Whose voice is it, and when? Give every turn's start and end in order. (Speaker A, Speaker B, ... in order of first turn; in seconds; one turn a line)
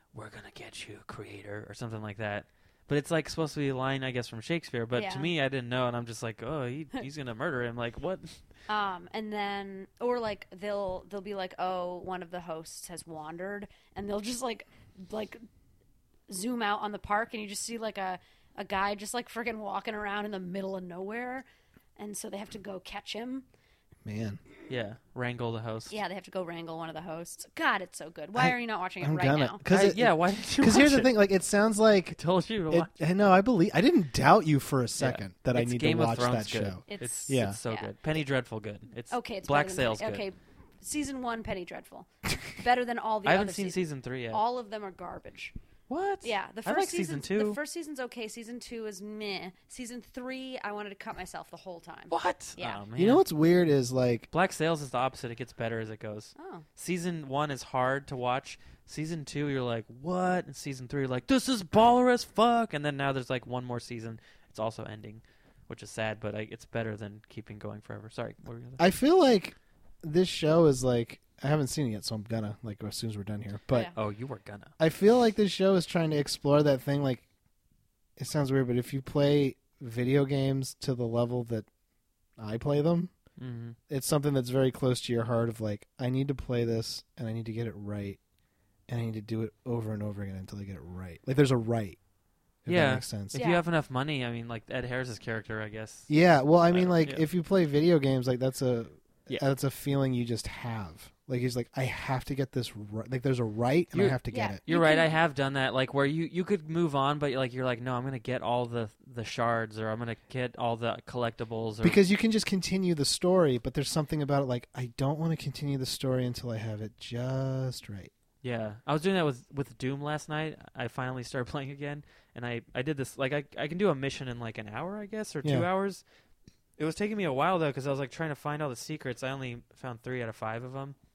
Speaker A: 0.1-8.4
Speaker B: 5.0-5.3
Speaker B: 8.7-15.4
Speaker B: 16.3-21.4
Speaker B: 22.0-23.4
Speaker C: 24.1-24.4
Speaker A: 24.7-26.0
Speaker B: 25.9-29.6
Speaker C: 28.4-32.2
Speaker A: 29.7-31.1
Speaker A: 32.1-32.9
Speaker C: 32.7-37.6
Speaker A: 35.0-40.2
Speaker B: 36.9-37.9
Speaker B: 39.1-45.5
Speaker A: 43.3-44.4
Speaker A: 45.9-47.6
Speaker B: 46.2-52.8
Speaker A: 52.1-53.2
Speaker C: 53.0-54.3
Speaker A: 54.3-68.9
Speaker B: 56.4-56.6
Speaker C: 68.8-73.9
Speaker A: 74.0-74.7
Speaker C: 74.8-77.2
Speaker C: 78.2-81.7
Speaker C: 82.4-83.1
Speaker A: 83.4-83.8
Speaker C: 83.9-88.2
Speaker C: 88.9-92.0
Speaker C: 92.7-93.4
Speaker A: 92.7-96.1
Speaker B: 93.3-93.6
Speaker C: 96.1-104.6
Speaker A: 96.7-97.2
Speaker A: 103.9-112.0
Speaker B: 104.3-105.2
Speaker C: 111.8-118.1
Speaker A: 118.4-126.0
Speaker A: 126.8-131.0